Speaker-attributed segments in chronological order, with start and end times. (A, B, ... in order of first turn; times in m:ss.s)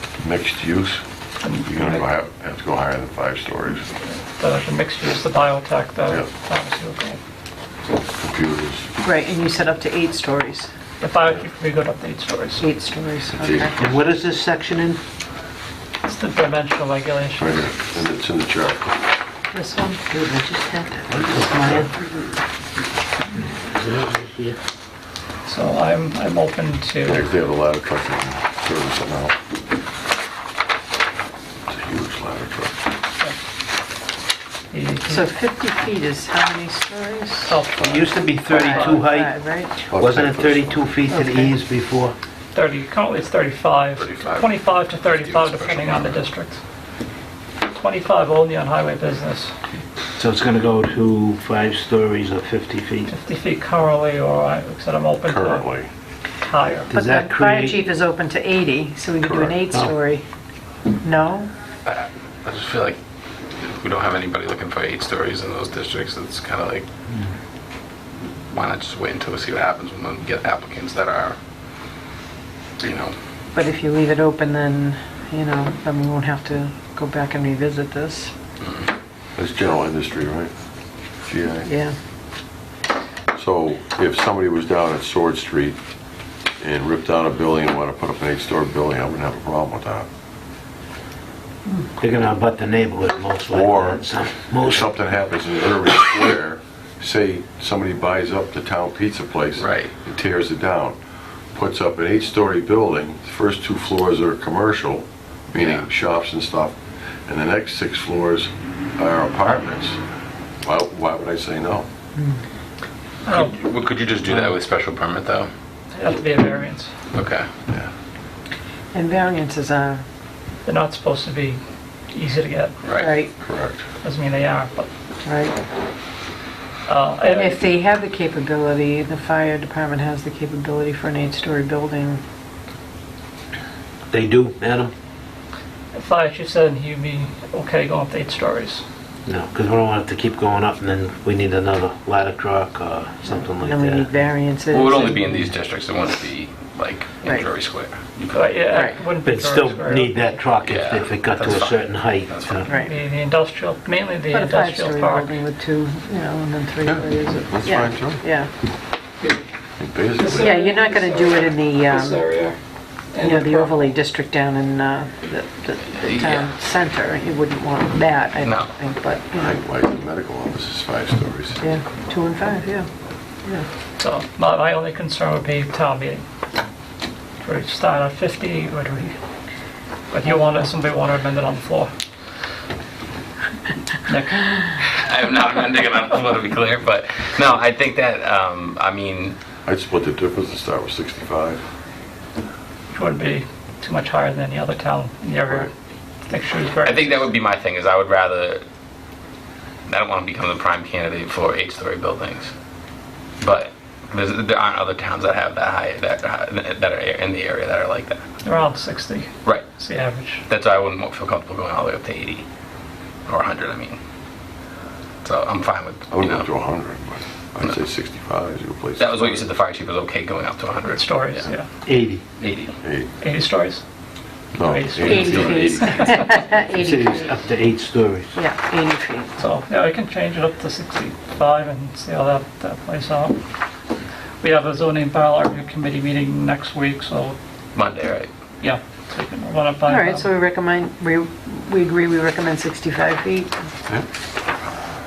0:00.2-0:01.0 A
0:01.4-0:02.0 B
0:01.5-0:03.9 A
0:04.0-0:07.2 B
0:08.2-0:08.9 A
0:09.0-0:10.7 C
0:11.0-0:12.6 B
0:12.6-0:13.9 C
0:13.4-0:13.8 A
0:13.8-0:15.0 D
0:16.0-0:17.7 B
0:17.4-0:19.0 A
0:19.5-0:22.0 C
0:21.1-0:21.9 D
0:23.5-0:24.6 D
0:25.4-0:27.2 B
0:27.0-0:29.4 A
0:31.7-0:32.9 A
0:34.7-0:35.2 B
0:35.1-0:37.6 C
0:37.5-0:39.0 B
0:37.8-0:38.0 A
0:37.8-0:39.3 D
0:38.5-0:39.7 C
0:39.9-0:40.9 A
0:39.9-0:42.2 D
0:41.1-0:41.5 C
0:42.5-0:46.6 B
0:44.0-0:46.2 E
0:47.6-0:49.5 B
0:50.2-0:53.1 D
0:53.1-0:55.7 B
0:55.2-0:55.9 A
0:56.4-0:56.9 B
0:56.9-0:57.8 D
0:56.9-1:00.2 C
0:59.2-0:59.6 A
1:01.0-1:01.5 C
1:01.8-1:03.0 E
1:03.6-1:06.8 E
1:08.5-1:11.4 E
1:12.8-1:13.1 E
1:13.5-1:18.3 C
1:18.6-1:18.9 E
1:19.4-1:20.5 A
1:21.2-1:21.7 A
1:21.6-1:21.9 C
1:23.3-1:25.8 A
1:26.6-1:30.1 A
1:32.0-1:34.9 D
1:33.5-1:34.0 A
1:34.6-1:41.0 A
1:39.6-1:39.9 E
1:41.5-1:46.8 A
1:45.6-1:45.9 E
1:47.3-1:50.0 A
1:50.6-1:51.9 A
1:52.2-1:52.4 C
1:53.2-1:53.6 B
1:53.2-1:55.5 E
1:55.9-1:56.9 B
1:57.1-1:57.5 E
1:58.9-2:00.0 C
2:00.6-2:02.9 B
2:02.8-2:03.2 E
2:03.0-2:03.3 C
2:03.4-2:03.8 A
2:04.0-2:04.9 B
2:05.2-2:05.5 C
2:06.8-2:07.6 B
2:07.3-2:12.2 C
2:14.1-2:14.9 D
2:15.9-2:18.8 B
2:19.2-2:24.1 D
2:23.6-2:25.4 C
2:24.7-2:28.6 E
2:27.2-2:27.5 C
2:28.3-2:30.1 B
2:28.7-2:29.0 C
2:29.2-2:32.7 D
2:30.6-2:32.7 E
2:32.7-2:35.4 B
2:34.3-2:38.5 C
2:36.8-2:38.2 A
2:39.8-2:40.6 A
2:40.4-2:42.3 C
2:40.4-2:41.1 B
2:42.0-2:42.6 B
2:43.2-2:43.6 B
2:43.2-2:49.6 C
2:45.9-2:46.5 E
2:48.4-2:48.7 E
2:49.4-2:51.7 A
2:51.6-2:52.9 C
2:54.0-2:56.2 B
2:57.4-2:59.2 B
3:00.1-3:01.9 B
3:00.3-3:00.6 C
3:04.0-3:04.5 B
3:04.6-3:09.4 E
3:09.6-3:11.6 A
3:12.9-3:15.7 B
3:16.3-3:17.3 B
3:16.8-3:18.6 E
3:19.9-3:22.5 E
3:23.4-3:28.2 E
3:28.4-3:30.4 B
3:30.5-3:32.4 E
3:33.3-3:34.0 E
3:35.2-3:36.5 E
3:36.1-3:39.5 A
3:39.0-3:41.5 E
3:40.8-3:41.7 B
3:41.8-3:42.2 D
3:42.4-3:42.8 E
3:42.8-3:43.1 A
3:43.2-3:43.8 B
3:44.5-3:45.7 A
3:44.6-3:46.3 B
3:45.0-3:47.3 C
3:45.0-3:46.1 E
3:46.8-3:48.3 D
3:48.3-3:49.4 C
3:49.4-3:53.4 B
3:54.4-3:57.4 B
3:57.7-3:58.3 E
3:58.6-4:00.3 B
3:59.9-4:03.5 C